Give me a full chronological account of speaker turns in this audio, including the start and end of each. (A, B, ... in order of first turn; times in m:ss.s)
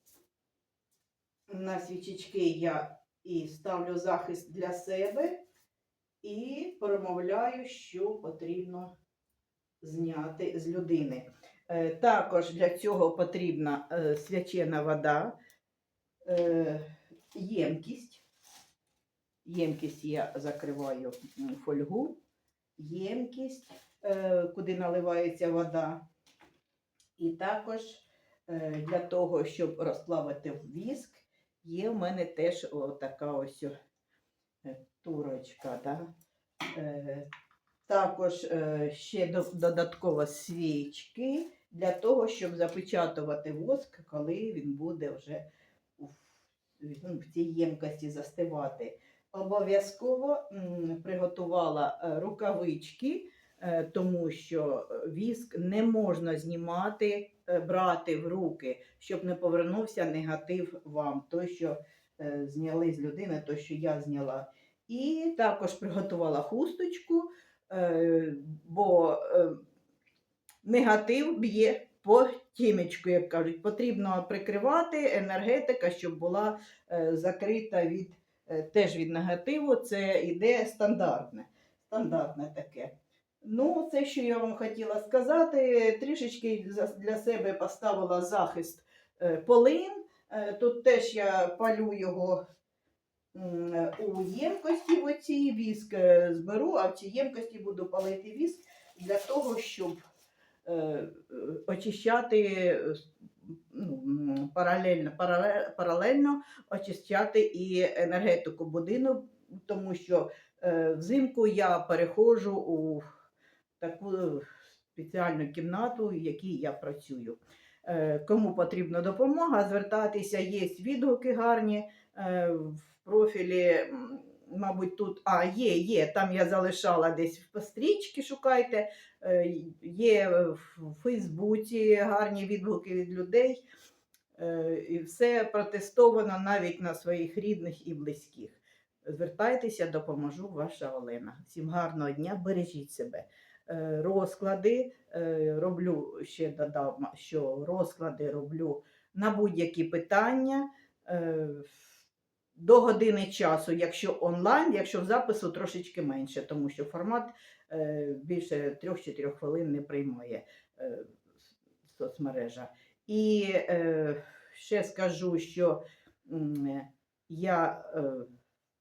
0:01.5-0:05.4 A
0:06.2-0:08.9 A
0:09.8-0:15.4 A
0:16.2-0:18.2 A
0:19.4-0:22.2 A
0:22.8-0:26.0 A
0:27.2-0:33.7 A
0:34.6-0:36.1 A
0:36.7-0:37.3 A
0:37.9-0:45.5 A
0:46.0-1:09.6 A
1:10.6-1:32.4 A
1:33.3-1:40.0 A
1:40.6-1:53.0 A
1:53.8-2:13.6 A
2:14.4-2:31.8 A
2:32.6-2:41.1 A
2:41.8-2:48.3 A